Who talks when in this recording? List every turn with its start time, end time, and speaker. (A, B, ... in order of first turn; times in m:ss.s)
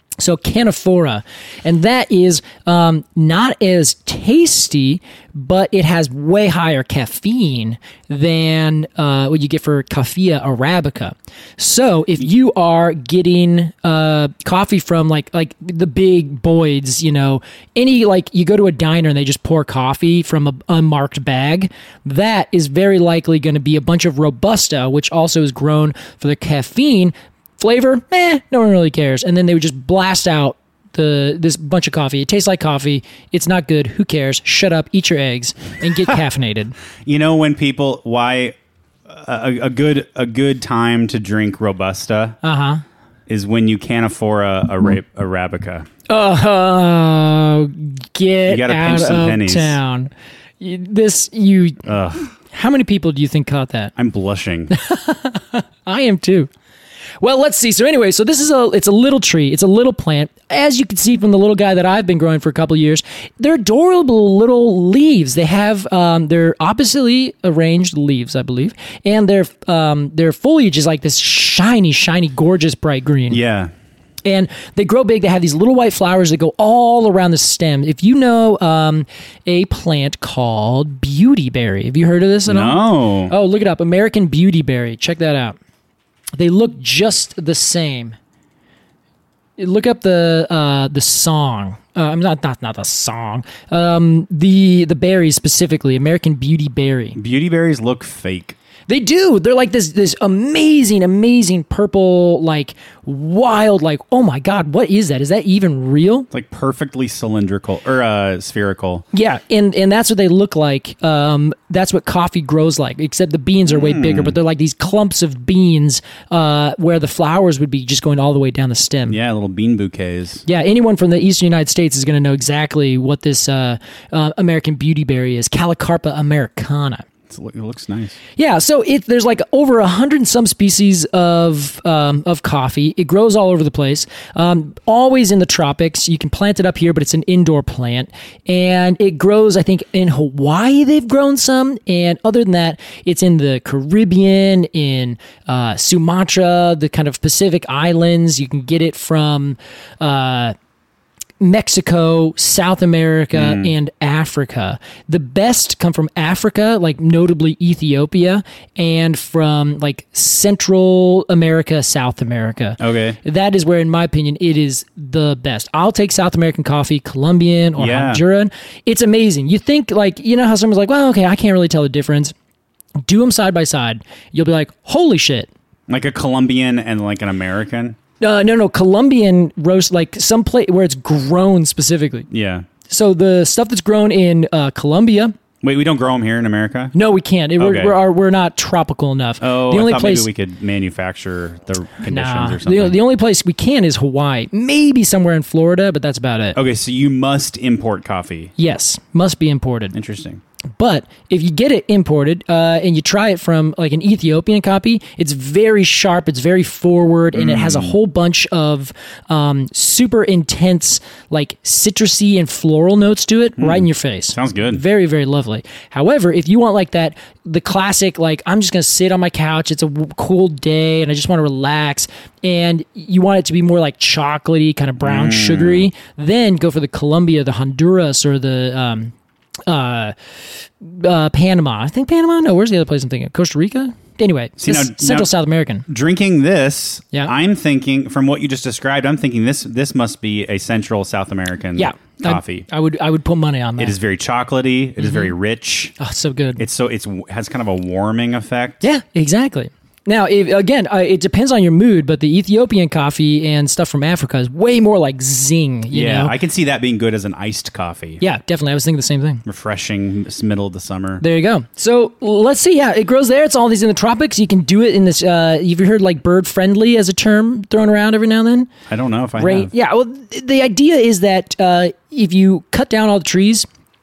0:00.2-0:36.8 A
0:37.0-0:38.6 B
0:39.1-0:42.4 B
0:42.4-0:42.8 A
0:43.3-0:45.9 B
0:46.1-0:51.8 A
0:48.5-0:49.8 B
0:51.8-0:52.3 B
0:52.5-0:53.9 A
0:54.0-0:54.7 B
0:54.7-0:56.5 A
0:57.2-1:13.4 A
1:13.3-1:13.7 B
1:14.2-1:25.6 A
1:22.5-1:23.4 B
1:26.4-1:28.2 A
1:29.6-1:37.2 A
1:37.2-1:38.6 B
1:38.9-1:46.3 A
1:46.3-1:49.0 B
1:49.1-1:59.2 A
1:53.7-1:54.4 B
1:59.1-2:00.4 B
2:00.5-2:07.0 A
2:07.3-2:08.2 B
2:08.4-2:30.6 A
2:31.4-2:52.3 A
2:33.3-2:33.7 B
2:42.8-2:43.2 B
2:47.8-2:48.2 B
2:53.0-2:55.5 A
2:55.9-2:58.0 B
2:58.2-3:02.3 A
3:02.3-3:02.7 B
3:02.9-3:05.4 A
3:05.6-3:06.9 B
3:06.9-3:10.3 A
3:07.6-3:08.0 B
3:09.4-3:13.0 B
3:12.1-3:16.6 A
3:16.6-3:18.5 B
3:18.6-3:19.9 A
3:19.9-3:20.4 B
3:20.8-3:49.1 A
3:27.3-3:28.0 B
3:33.6-3:34.8 B
3:45.0-3:45.9 B
3:49.7-3:50.2 A
3:50.8-3:55.9 A
3:54.6-3:55.3 B
3:55.9-4:02.7 B
4:01.8-4:04.0 A
4:03.8-4:05.9 B
4:05.0-4:05.3 A
4:06.0-4:06.6 A
4:06.6-4:08.8 B
4:08.8-4:16.3 A
4:15.9-4:18.2 B
4:18.2-4:19.4 A
4:19.4-4:21.2 B
4:21.2-4:28.7 A
4:28.9-4:29.7 B
4:29.4-4:33.7 A